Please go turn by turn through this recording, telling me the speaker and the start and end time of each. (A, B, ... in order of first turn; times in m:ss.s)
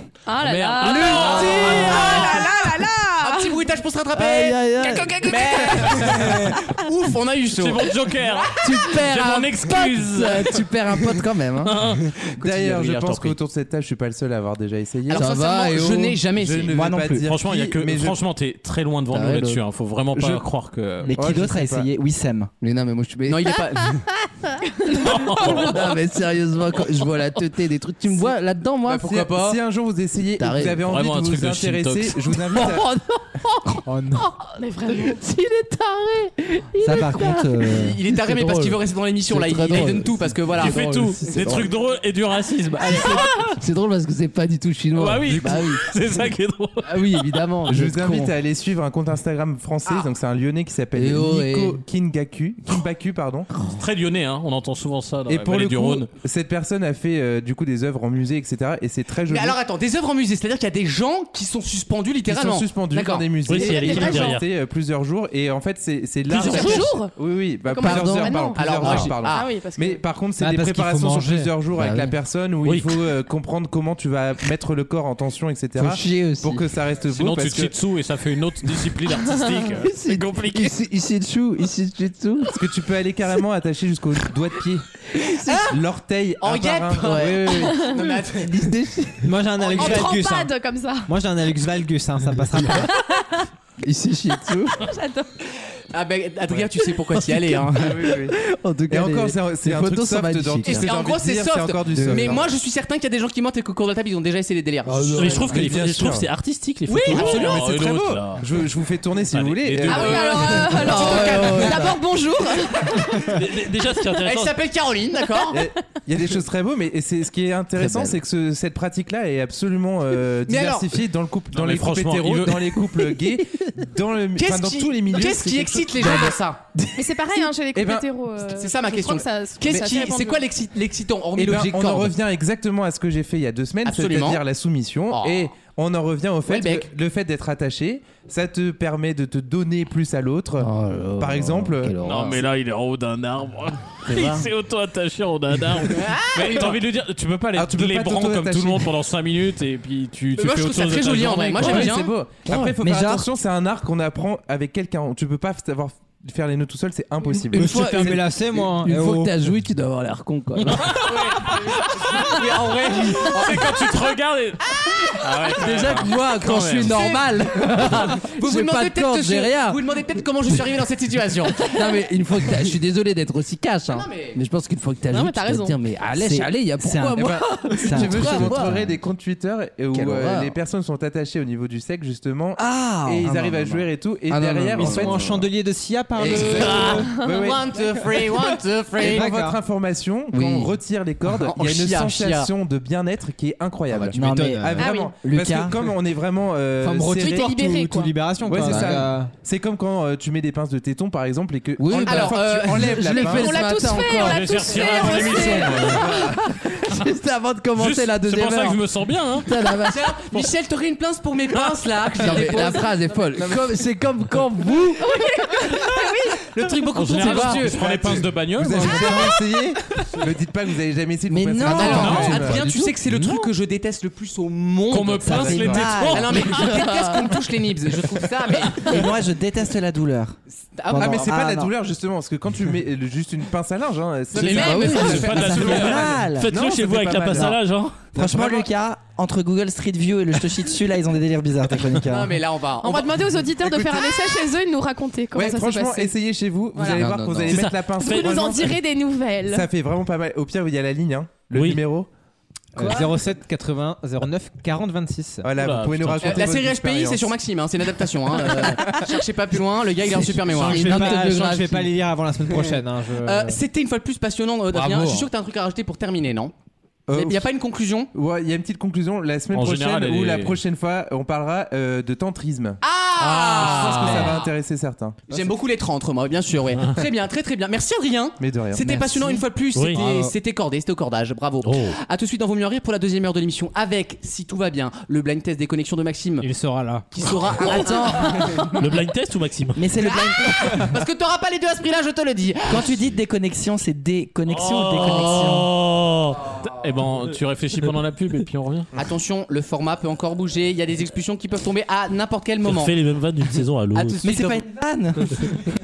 0:00.3-0:03.6 A
0:00.4-0:02.0 B
0:00.8-0:02.7 C
0:01.0-0:02.3 D
0:03.2-0:04.6 C
0:04.1-0:06.6 D
0:05.2-0:07.9 C
0:07.5-0:10.6 B
0:08.6-0:11.8 D
0:11.6-0:12.1 B
0:12.4-0:15.3 E
0:12.4-0:13.3 C
0:12.7-0:13.2 D
0:15.1-0:16.8 C
0:15.1-0:16.2 D
0:16.3-0:18.2 E
0:16.7-0:17.3 F
0:17.3-0:21.2 B
0:19.1-0:19.6 D
0:20.1-0:20.4 E
0:21.1-0:22.5 F
0:21.1-0:21.9 E
0:22.6-0:23.6 D
0:23.3-0:24.0 C
0:24.9-0:25.7 A
0:25.0-0:25.8 B
0:25.5-0:29.2 D
0:28.8-0:29.6 C
0:29.0-0:32.9 E
0:30.4-0:30.8 D
0:30.8-0:32.2 B
0:32.5-0:34.4 D
0:33.9-0:34.3 G
0:34.6-0:35.2 A
0:34.9-0:41.7 D
0:36.8-0:38.0 F
0:37.7-0:40.8 C
0:40.6-0:43.6 B
0:42.8-0:45.8 D
0:45.0-0:47.2 B
0:45.3-0:45.6 E
0:46.8-0:48.3 D
0:47.7-0:53.5 E
0:49.9-0:50.1 C
0:51.0-0:51.8 D
0:53.6-0:56.1 B
0:55.3-0:59.6 E
0:59.3-1:04.1 C
1:02.3-1:17.7 E
1:03.5-1:04.5 H
1:03.5-1:04.4 A
1:06.3-1:10.0 A
1:06.4-1:06.9 C
1:07.8-1:08.5 D
1:08.6-1:09.5 C
1:10.4-1:11.6 G
1:11.8-1:12.2 D
1:12.6-1:13.0 H
1:15.8-1:16.6 D
1:17.1-1:20.8 B
1:19.8-1:22.6 D
1:22.5-1:24.8 E
1:25.2-1:25.7 D
1:25.7-1:28.0 E
1:26.4-1:28.8 C
1:27.0-1:27.8 D
1:27.7-1:28.1 A
1:28.3-1:29.8 D
1:29.2-1:30.5 G
1:29.7-1:30.1 C
1:29.8-1:31.1 A
1:31.1-1:32.9 G
1:32.9-1:33.4 A
1:33.8-1:34.8 D
1:34.8-1:35.3 A
1:35.9-1:38.1 C
1:37.4-1:40.9 D
1:37.8-1:38.4 E
1:38.9-1:42.5 E
1:40.7-1:45.8 C
1:41.9-1:42.4 D
1:44.9-1:45.5 D
1:45.0-1:46.3 E
1:45.2-1:47.6 H
1:46.9-1:48.2 C
1:47.1-1:50.6 E
1:47.2-1:48.6 B
1:49.3-1:50.8 B
1:49.8-1:53.3 A
1:49.9-1:52.0 C
1:50.8-1:52.6 D
1:53.2-1:54.6 H
1:54.2-1:55.6 C
1:55.5-2:07.1 E
1:57.8-1:58.1 D
2:00.5-2:01.0 C
2:01.5-2:02.8 B
2:04.4-2:06.6 C
2:07.0-2:10.5 A
2:07.6-2:08.1 E
2:08.6-2:12.2 C
2:11.4-2:22.0 E
2:13.8-2:14.4 C
2:15.1-2:15.5 C
2:16.5-2:16.9 C
2:20.6-2:22.4 D
2:22.0-2:32.0 B
2:24.1-2:24.4 D
2:25.9-2:26.8 C
2:27.5-2:28.9 E
2:30.4-2:32.2 C
2:31.6-2:37.9 E
2:32.8-2:33.3 F
2:37.5-2:41.0 D
2:37.5-2:39.3 G
2:40.6-2:47.0 B
2:41.0-2:43.7 C
2:42.2-2:43.4 D
2:45.2-2:51.7 C
2:45.5-2:49.8 D
2:51.6-2:58.8 D
2:53.9-2:54.4 C
2:55.1-2:55.8 A
2:56.2-2:59.0 F
2:57.2-3:05.5 E
2:59.9-3:00.6 D
3:02.6-3:05.4 D
3:04.8-3:07.1 G
3:06.2-3:07.0 D
3:06.3-3:07.7 E
3:06.4-3:09.3 C
3:06.9-3:07.4 A
3:09.0-3:17.6 E
3:09.0-3:09.6 G
3:10.3-3:10.7 D
3:11.3-3:12.5 C
3:14.1-3:14.9 G
3:14.1-3:15.8 F
3:14.8-3:15.2 A
3:16.8-3:19.3 G
3:17.2-3:18.2 A
3:18.3-3:23.5 E
3:21.8-3:24.3 D
3:22.1-3:25.8 C
3:23.5-3:26.2 A
3:24.2-3:26.2 B
3:25.4-3:26.5 E
3:26.4-3:30.1 D
3:27.8-3:29.7 B
3:29.9-3:32.9 C
3:31.5-3:31.8 B
3:32.2-3:35.0 D
3:32.4-3:32.7 E
3:33.4-3:33.8 E
3:35.0-3:36.1 A
3:35.7-3:38.0 C
3:37.0-3:39.2 B
3:37.3-3:42.7 E
3:38.7-3:39.7 D
3:41.3-3:42.9 D
3:41.3-3:42.9 F
3:41.8-3:49.0 C
3:41.9-3:42.4 B
3:43.1-3:43.4 B
3:44.9-3:46.8 B
3:45.2-3:46.7 F
3:45.5-3:46.0 E
3:48.8-3:50.4 F
3:50.8-3:51.5 C
3:50.9-3:51.7 F
3:51.0-3:57.6 E
3:54.4-3:56.2 B
3:54.4-3:55.5 C
3:54.4-3:56.5 F
3:54.6-3:55.1 D
3:56.3-3:58.1 H
3:58.1-3:58.7 E
3:58.1-4:02.4 F
4:02.0-4:04.1 C
4:02.8-4:06.2 A
4:05.3-4:08.8 E
4:06.8-4:07.1 A
4:06.8-4:07.7 D
4:07.8-4:09.7 A
4:09.5-4:12.1 E
4:11.5-4:11.8 H
4:12.8-4:15.5 G
4:15.4-4:17.3 E
4:15.6-4:16.6 B
4:16.2-4:20.9 C
4:20.2-4:21.9 D
4:20.4-4:21.7 B
4:20.6-4:23.6 G
4:22.5-4:26.5 C
4:24.7-4:25.3 D
4:27.1-4:27.5 E
4:27.1-4:28.1 C
4:28.1-4:35.5 E
4:29.5-4:30.6 B
4:32.8-4:34.5 C
4:35.3-4:46.5 C
4:38.4-4:39.4 E
4:39.7-4:40.0 H
4:41.6-4:41.9 H
4:46.4-4:47.1 G
4:47.1-4:48.8 C
4:47.6-4:48.7 F
4:48.8-4:49.8 H
4:49.8-4:50.9 F
4:50.0-4:53.0 C
4:52.7-4:55.7 F
4:54.5-4:55.6 B
4:54.9-4:56.4 H
4:56.6-4:58.9 B
4:59.0-5:03.0 C
5:02.6-5:04.2 H
5:03.9-5:04.6 C
5:04.2-5:05.6 F